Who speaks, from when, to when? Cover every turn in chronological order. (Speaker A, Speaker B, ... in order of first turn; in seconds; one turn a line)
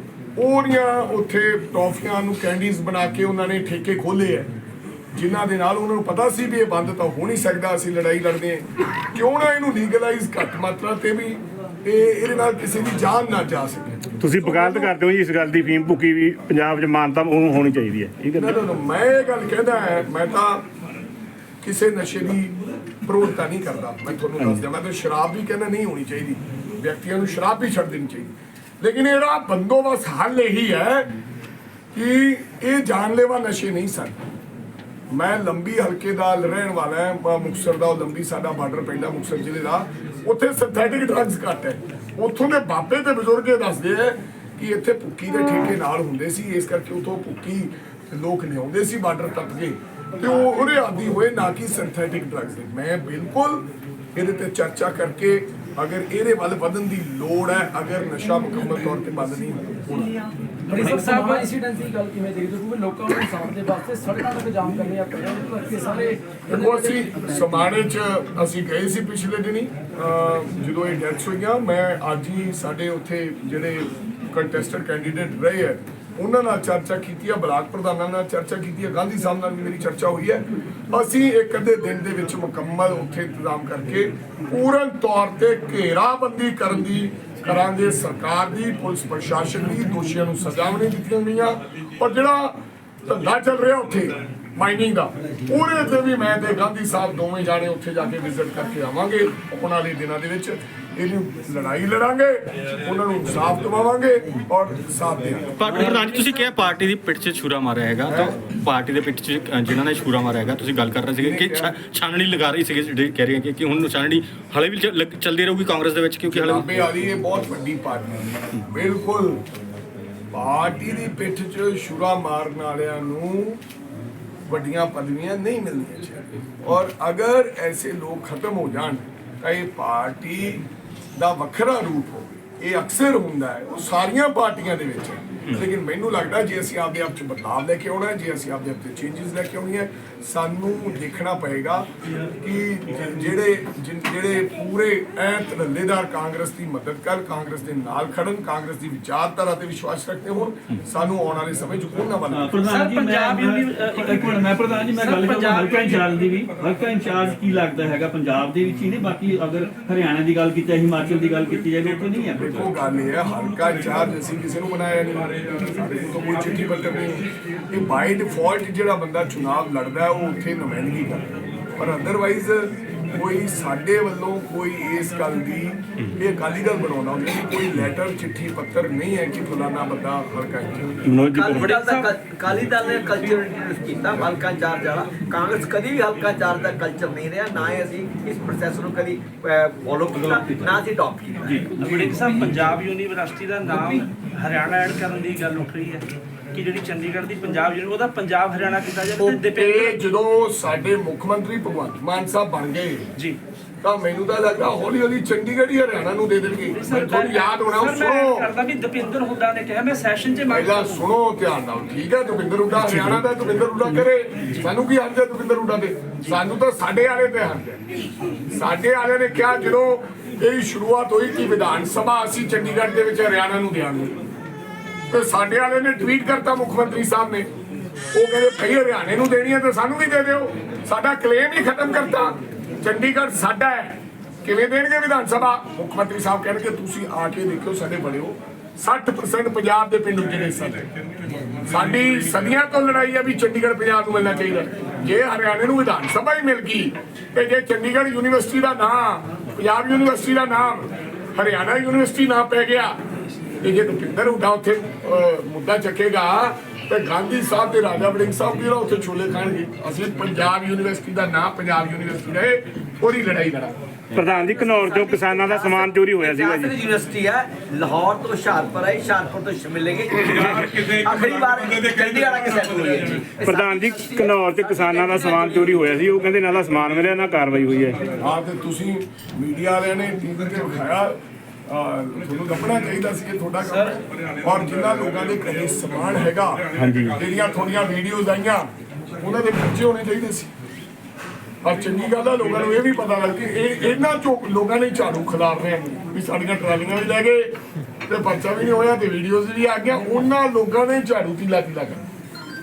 Speaker A: 0.4-4.5
Speaker A: 5.1-14.9
Speaker B: 14.2-18.6
Speaker A: 18.4-20.6
Speaker A: 21.6-22.5
Speaker A: 23.0-31.1
Speaker A: 31.9-34.2
Speaker A: 35.1-60.2
Speaker C: 60.7-61.5
Speaker D: 60.7-67.1
Speaker A: 66.5-105.5
Speaker E: 105.6-116.6
Speaker A: 108.1-108.4
Speaker A: 111.2-111.8
Speaker A: 116.3-119.4
Speaker A: 120.3-123.6
Speaker A: 124.5-130.6
Speaker A: 131.2-141.8
Speaker A: 142.4-152.5
Speaker F: 152.3-162.7
Speaker C: 152.6-156.1
Speaker A: 162.4-171.3
Speaker A: 171.8-181.0
Speaker B: 181.0-181.8
Speaker G: 181.3-192.2
Speaker C: 181.6-182.1
Speaker C: 191.8-200.0
Speaker A: 199.2-203.1
Speaker A: 203.8-208.5
Speaker C: 206.7-211.0
Speaker A: 210.5-217.8
Speaker A: 218.5-224.1
Speaker A: 225.1-227.5
Speaker A: 228.1-240.8
Speaker A: 241.6-253.0
Speaker A: 253.6-263.7
Speaker G: 264.1-276.0
Speaker B: 264.1-266.8
Speaker B: 273.4-278.0
Speaker A: 278.2-281.2
Speaker A: 281.7-290.5
Speaker C: 283.6-283.9
Speaker B: 286.8-287.2
Speaker A: 291.6-297.6
Speaker A: 298.1-302.0